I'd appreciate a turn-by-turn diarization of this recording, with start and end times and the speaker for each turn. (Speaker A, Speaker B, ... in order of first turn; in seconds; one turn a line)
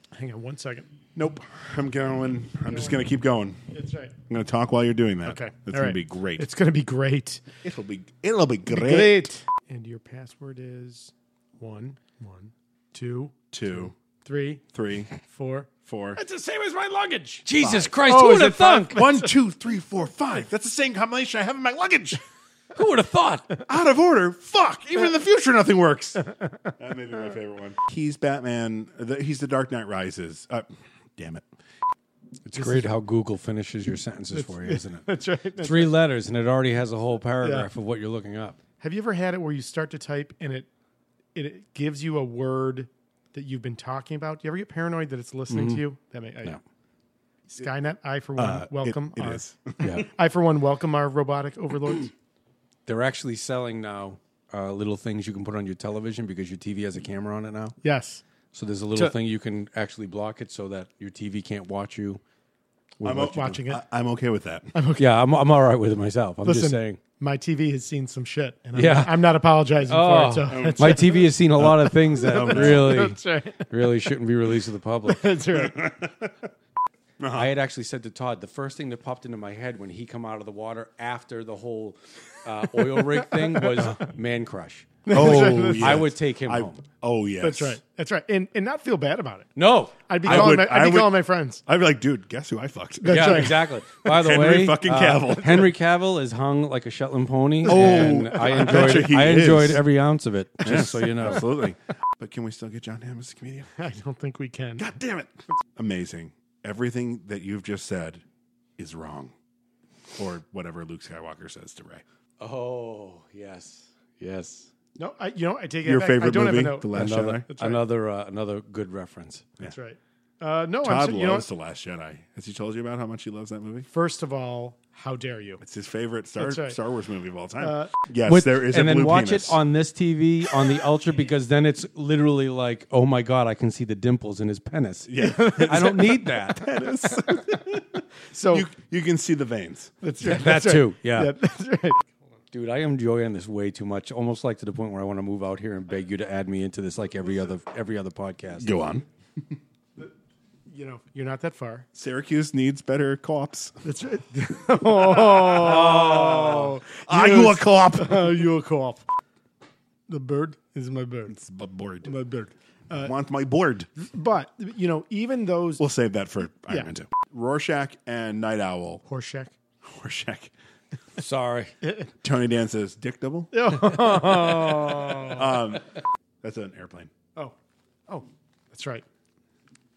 Speaker A: 0.1-0.9
Speaker B: 1.1-3.6
Speaker A: 2.7-2.9
Speaker A: 3.7-4.2
Speaker B: 4.3-6.5
Speaker A: 5.2-7.5
Speaker B: 7.6-9.3
Speaker A: 8.7-19.3
Speaker B: 13.5-13.9
Speaker B: 14.7-15.1
Speaker B: 15.8-16.2
Speaker C: 17.4-19.0
Speaker B: 17.6-17.9
Speaker B: 18.9-22.2
Speaker C: 22.7-23.5
Speaker B: 23.6-26.2
Speaker B: 26.8-31.4
Speaker C: 32.5-35.1
Speaker A: 32.5-32.9
Speaker A: 34.3-35.9
Speaker C: 35.6-38.6
Speaker A: 37.4-37.7
Speaker A: 38.8-40.7
Speaker A: 41.3-46.6
Speaker C: 45.5-45.8
Speaker A: 47.5-52.1
Speaker B: 48.4-50.0
Speaker C: 49.8-50.1
Speaker C: 52.9-57.8
Speaker A: 57.8-58.2
Speaker C: 58.5-62.2
Speaker C: 63.0-63.6
Speaker B: 63.0-64.7
Speaker A: 63.2-63.8
Speaker A: 64.7-65.1
Speaker C: 65.0-67.0
Speaker A: 66.4-71.2
Speaker C: 68.7-69.3
Speaker C: 69.8-75.3
Speaker B: 70.5-73.0
Speaker A: 72.1-73.7
Speaker A: 75.1-75.8
Speaker B: 75.5-76.3
Speaker B: 77.2-77.5
Speaker C: 77.3-86.8
Speaker A: 82.9-84.0
Speaker A: 85.1-86.1
Speaker B: 85.1-87.8
Speaker A: 87.4-89.5
Speaker C: 89.5-90.6
Speaker A: 90.1-91.6
Speaker B: 90.2-95.7
Speaker A: 93.0-93.7
Speaker C: 93.0-101.5
Speaker A: 97.7-99.1
Speaker B: 97.7-99.8
Speaker B: 100.6-103.7
Speaker A: 103.8-104.9
Speaker B: 104.8-108.2
Speaker B: 108.8-109.3
Speaker B: 110.1-112.0
Speaker C: 112.4-114.7
Speaker A: 115.0-117.8
Speaker B: 115.8-117.5
Speaker C: 116.9-119.5
Speaker A: 119.7-121.5
Speaker B: 120.8-123.9
Speaker A: 123.9-125.6
Speaker B: 125.6-129.6
Speaker A: 126.4-126.8
Speaker A: 127.6-127.9
Speaker C: 128.2-136.7
Speaker B: 135.1-140.0
Speaker A: 135.2-135.8
Speaker A: 137.0-137.6
Speaker A: 138.3-138.7
Speaker A: 140.0-142.1
Speaker C: 140.2-141.3
Speaker C: 142.5-148.7
Speaker B: 148.6-149.0
Speaker A: 150.7-151.9
Speaker B: 151.9-153.8
Speaker A: 153.8-159.1
Speaker C: 155.6-156.7
Speaker B: 155.8-158.4
Speaker A: 160.1-161.3
Speaker B: 161.3-162.2
Speaker A: 162.0-163.1
Speaker B: 162.9-163.9
Speaker A: 163.9-165.8
Speaker B: 165.8-169.0
Speaker A: 169.1-169.5
Speaker B: 169.8-170.5
Speaker C: 171.2-171.7
Speaker B: 172.2-177.1
Speaker A: 173.5-175.6
Speaker A: 178.1-179.0